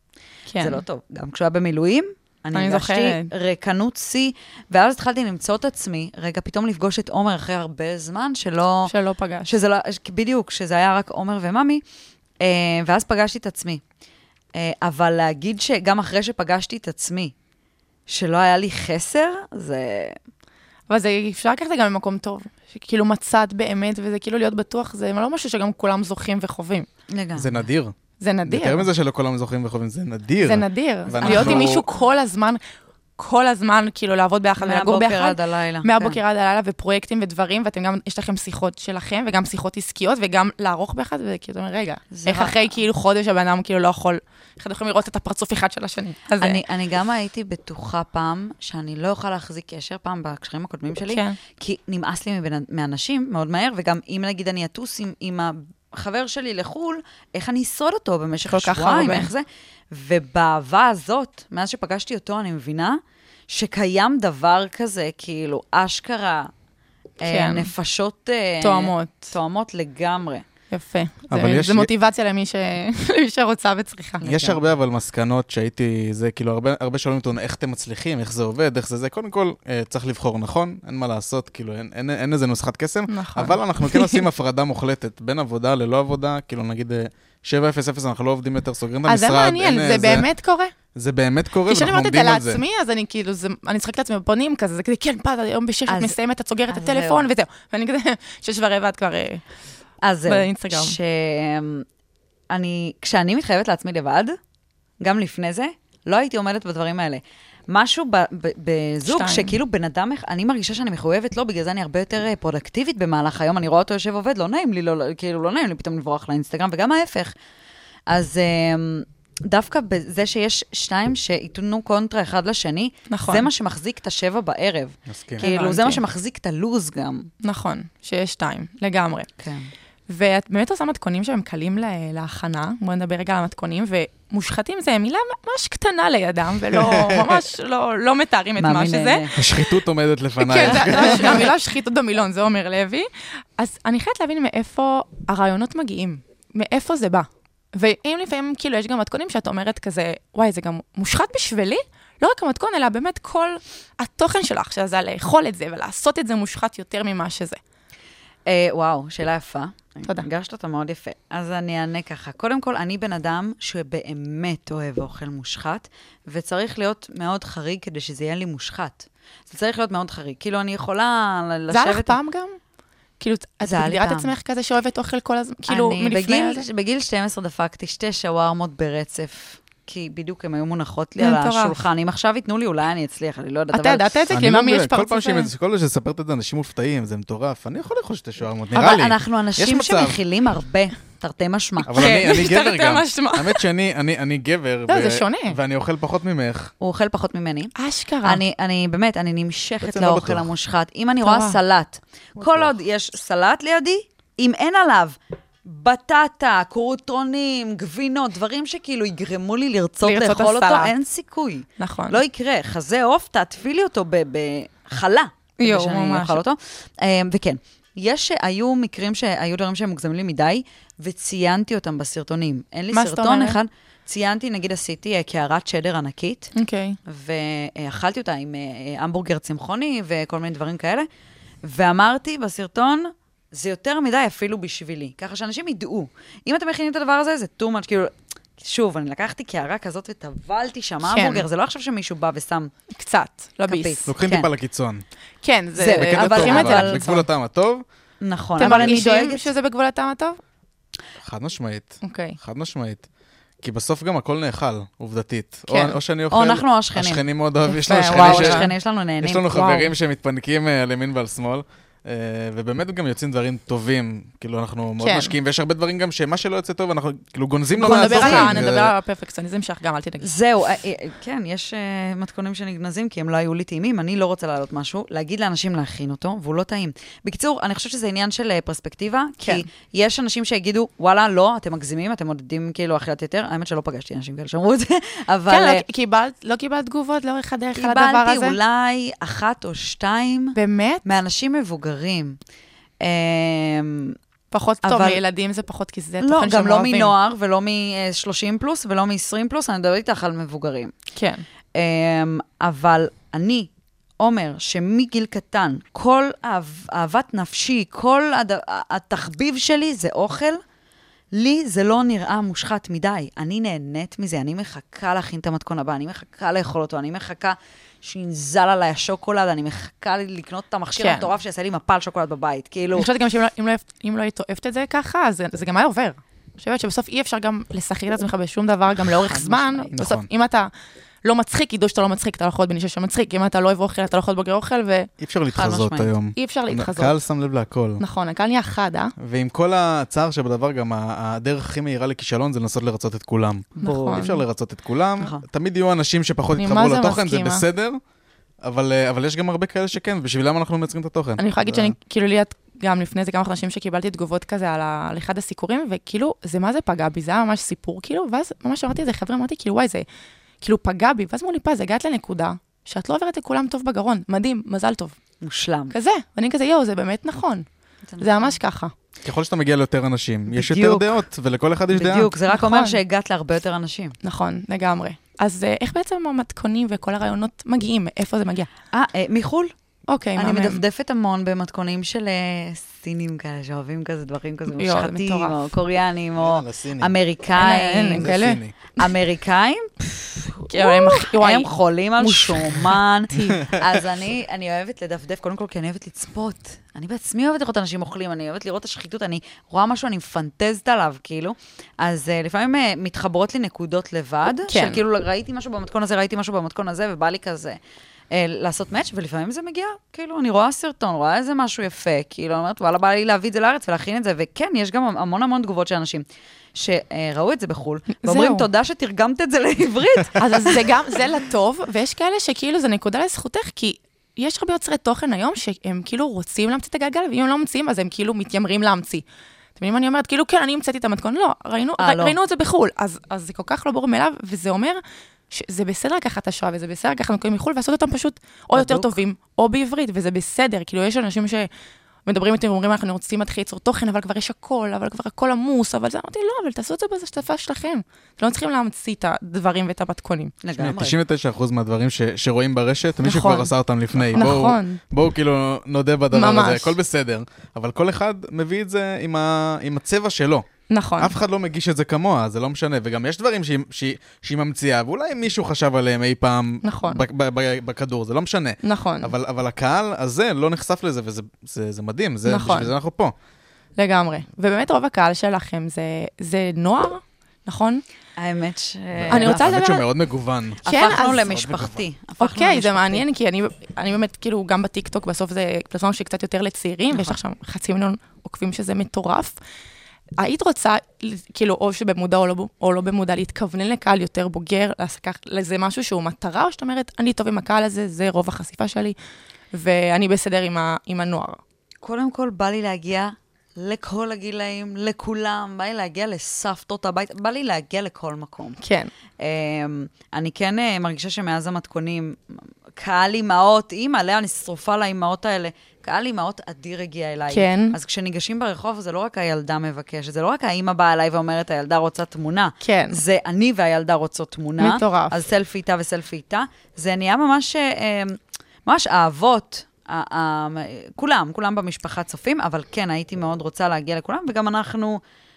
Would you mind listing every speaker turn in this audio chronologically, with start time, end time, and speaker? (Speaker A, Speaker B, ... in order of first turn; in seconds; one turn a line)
Speaker A: 0.5-0.8
Speaker B: 0.6-8.9
Speaker A: 2.5-3.3
Speaker A: 8.9-9.5
Speaker B: 9.5-11.8
Speaker B: 12.4-13.8
Speaker B: 14.5-17.3
Speaker B: 18.1-20.2
Speaker A: 20.9-26.9
Speaker B: 27.1-27.6
Speaker C: 27.4-27.9
Speaker A: 28.2-28.9
Speaker C: 28.5-31.8
Speaker A: 30.4-32.6
Speaker B: 31.2-31.8
Speaker A: 33.2-46.6
Speaker B: 34.6-36.2
Speaker B: 42.1-42.8
Speaker B: 46.4-66.5
Speaker A: 51.1-51.4
Speaker A: 58.5-59.3
Speaker A: 67.2-67.7
Speaker B: 67.2-70.5
Speaker A: 68.6-69.3
Speaker A: 70.7-74.6
Speaker C: 71.3-71.9
Speaker C: 74.2-90.3
Speaker A: 83.1-84.2
Speaker A: 89.1-90.7
Speaker C: 91.0-92.6
Speaker A: 91.7-99.4
Speaker B: 95.9-96.2
Speaker B: 96.7-97.3
Speaker B: 100.0-101.8
Speaker A: 100.3-101.0
Speaker B: 102.5-104.4
Speaker B: 105.0-117.3
Speaker A: 109.1-109.5
Speaker B: 118.1-127.3
Speaker A: 123.1-123.5
Speaker C: 125.1-125.4
Speaker A: 125.4-126.0
Speaker A: 127.4-129.3
Speaker B: 129.4-129.7
Speaker A: 130.1-139.2
Speaker C: 136.7-137.4
Speaker B: 138.6-139.4
Speaker C: 139.3-141.4
Speaker A: 140.4-143.1
Speaker B: 140.8-141.4
Speaker A: 143.6-157.6
Speaker B: 158.5-172.2
Speaker A: 171.7-172.6
Speaker A: 173.2-176.7
Speaker B: 173.7-174.3
Speaker B: 175.7-184.1
Speaker A: 181.2-181.8
Speaker A: 183.7-185.5
Speaker C: 184.3-190.2
Speaker B: 188.7-192.2
Speaker C: 191.9-196.7
Speaker A: 191.9-193.6
Speaker A: 194.9-195.6
Speaker B: 196.8-197.7
Speaker A: 197.8-198.4
Speaker B: 198.2-226.5
Speaker C: 199.8-200.5
Speaker A: 201.2-201.6
Speaker C: 202.4-202.8
Speaker A: 210.0-210.9
Speaker A: 211.8-212.2
Speaker A: 215.6-216.4
Speaker A: 222.9-223.6
Speaker A: 226.6-227.0
Speaker B: 227.1-231.1
Speaker B: 231.6-242.7
Speaker A: 241.1-241.4
Speaker A: 242.9-244.1
Speaker B: 243.7-244.5
Speaker C: 244.1-245.0
Speaker A: 245.4-247.3
Speaker B: 245.8-247.0
Speaker C: 245.9-247.8
Speaker B: 248.2-249.5
Speaker A: 248.6-250.4
Speaker C: 248.7-248.9
Speaker C: 251.2-253.0
Speaker A: 252.0-252.4
Speaker C: 253.6-258.7
Speaker A: 255.7-256.0
Speaker B: 256.3-257.2
Speaker A: 257.7-258.7
Speaker B: 257.9-259.8
Speaker C: 259.2-268.9
Speaker A: 265.0-265.3
Speaker A: 267.8-270.3
Speaker B: 267.8-268.6
Speaker B: 270.2-285.9
Speaker A: 285.5-288.6
Speaker B: 287.8-292.4
Speaker A: 290.6-291.1
Speaker B: 293.0-294.2
Speaker A: 294.5-297.1
Speaker B: 294.8-295.2
Speaker B: 296.2-300.9
Speaker A: 301.2-301.4
Speaker B: 301.8-303.7
Speaker B: 304.2-310.6
Speaker B: 311.3-323.1
Speaker A: 321.0-321.3
Speaker A: 323.0-330.7
Speaker B: 329.0-329.9
Speaker C: 329.9-330.3
Speaker A: 331.2-335.1
Speaker C: 335.2-338.0
Speaker B: 335.5-336.1
Speaker A: 336.4-337.2
Speaker A: 338.0-339.1
Speaker C: 339.2-348.0
Speaker A: 343.8-344.4
Speaker B: 343.9-344.2
Speaker B: 345.2-345.5
Speaker A: 346.6-347.6
Speaker C: 348.6-351.9
Speaker A: 351.4-360.1
Speaker A: 360.6-365.1
Speaker B: 365.4-365.9
Speaker A: 365.9-367.7
Speaker B: 368.1-368.6
Speaker A: 368.2-368.9
Speaker C: 369.2-372.3
Speaker B: 370.5-371.1
Speaker B: 371.9-374.2
Speaker A: 372.5-373.0
Speaker A: 374.2-378.7
Speaker B: 378.9-379.7
Speaker A: 380.1-380.8
Speaker B: 380.4-388.3
Speaker A: 384.7-385.6
Speaker C: 386.4-387.1
Speaker A: 387.6-388.6
Speaker C: 388.2-388.7
Speaker B: 389.0-407.8
Speaker A: 390.7-393.7
Speaker A: 404.7-405.0
Speaker B: 408.3-421.2
Speaker A: 418.2-418.6
Speaker A: 420.4-429.2
Speaker A: 429.8-441.7
Speaker B: 432.0-432.4
Speaker B: 438.8-439.1
Speaker A: 442.3-450.6
Speaker B: 450.6-451.2
Speaker C: 450.8-460.7
Speaker A: 453.2-453.7
Speaker A: 454.3-455.0
Speaker A: 456.3-457.0
Speaker A: 460.9-461.4
Speaker C: 461.2-473.4
Speaker A: 466.8-467.2
Speaker A: 468.8-469.3
Speaker A: 472.5-472.9
Speaker A: 474.0-478.0
Speaker B: 478.4-479.8
Speaker C: 479.1-480.9
Speaker A: 479.3-480.1
Speaker A: 480.8-481.4
Speaker B: 480.9-483.2
Speaker C: 481.4-482.0
Speaker A: 482.4-489.6
Speaker B: 487.1-487.4
Speaker A: 490.4-499.2
Speaker A: 499.7-501.6
Speaker B: 502.0-508.8
Speaker A: 508.8-509.1
Speaker B: 509.4-535.2
Speaker A: 517.5-518.0
Speaker A: 522.8-523.2
Speaker A: 524.8-525.4